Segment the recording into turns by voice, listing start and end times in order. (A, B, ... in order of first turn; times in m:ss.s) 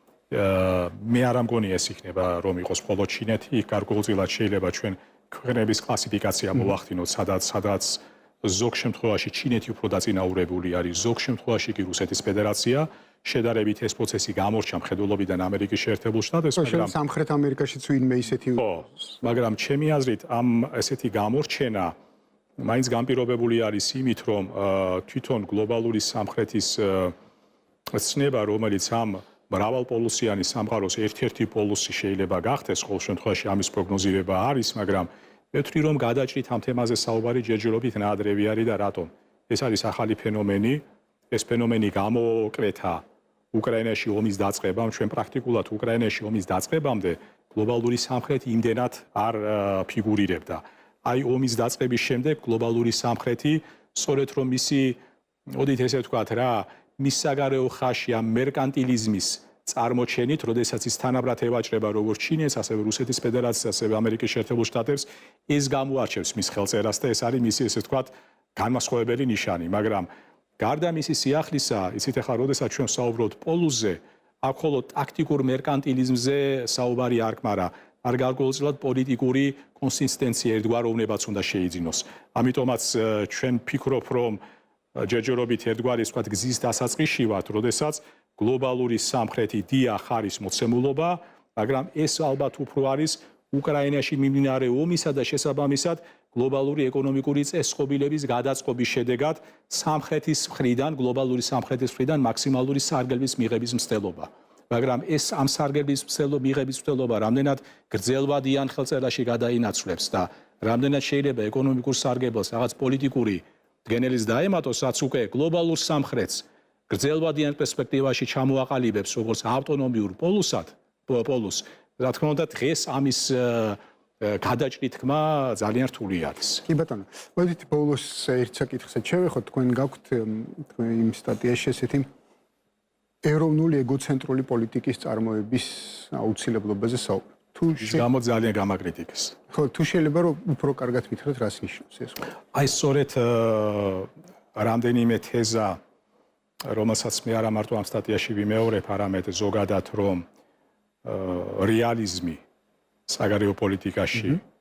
0:00.3-0:17.0 A
0:16.6-0:18.7 B
0:18.6-0:22.0 A
0:22.6-0:27.1 A
0:27.9-1:24.4 A
1:25.0-2:06.6 A
2:06.7-2:12.1 B
2:13.2-2:18.0 B
2:17.8-2:19.4 A
2:19.5-2:22.3 B
2:22.5-2:25.8 A
2:26.6-2:30.2 A
2:31.0-2:32.4 A
2:33.1-2:34.4 A